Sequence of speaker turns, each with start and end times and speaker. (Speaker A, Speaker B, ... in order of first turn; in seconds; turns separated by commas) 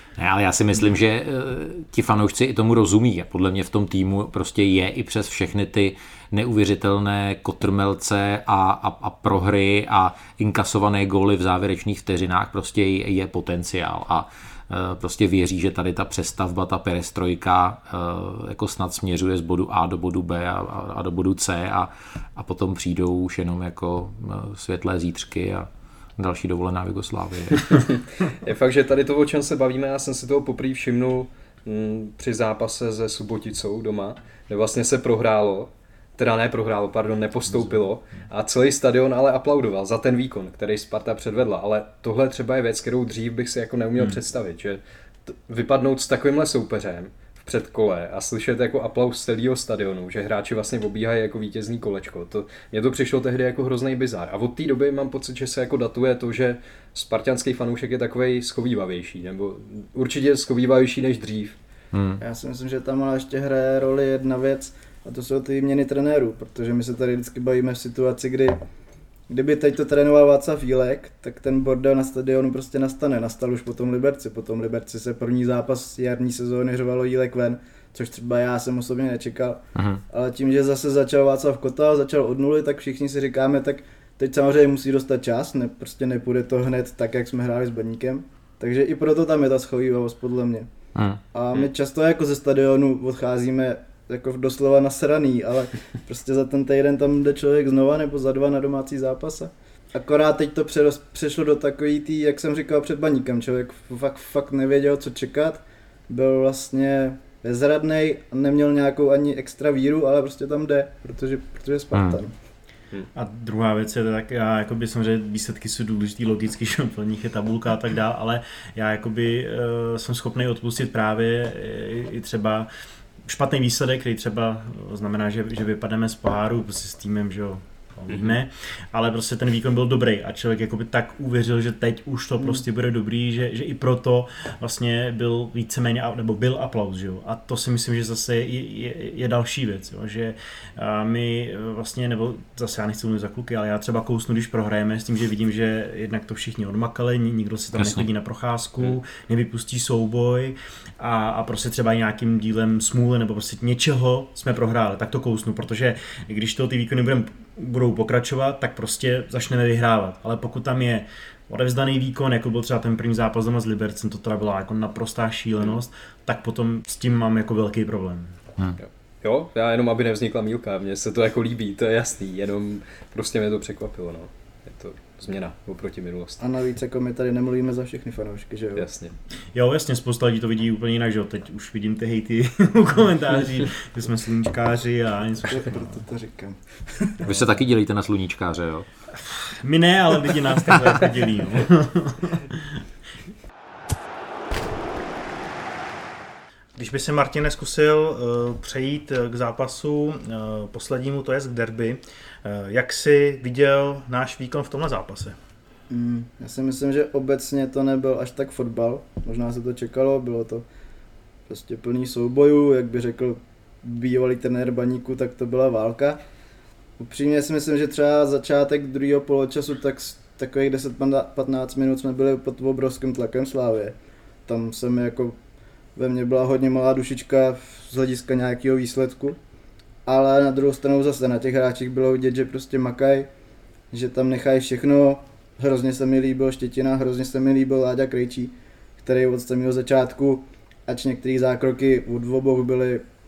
Speaker A: 0.2-27.8, Speaker B: 27.7-61.6, Speaker A: 61.9-62.2, Speaker C: 62.2-68.6, Speaker C: 69.3-90.7, Speaker A: 79.8-80.0, Speaker A: 91.0-91.2, Speaker C: 91.3-112.3, Speaker D: 113.1-122.7, Speaker D: 123.3-168.3, Speaker A: 147.8-148.1, Speaker B: 168.8-176.4, Speaker C: 176.4-178.9, Speaker B: 178.8-179.1, Speaker D: 179.5-186.0, Speaker C: 185.5-187.3, Speaker A: 187.2-188.9, Speaker D: 189.2-192.8, Speaker E: 196.8-205.4, Speaker C: 205.9-210.7, Speaker C: 211.5-216.2, Speaker C: 217.0-223.9, Speaker C: 224.5-225.4, Speaker C: 226.0-229.4, Speaker C: 230.1-233.3, Speaker C: 233.9-243.0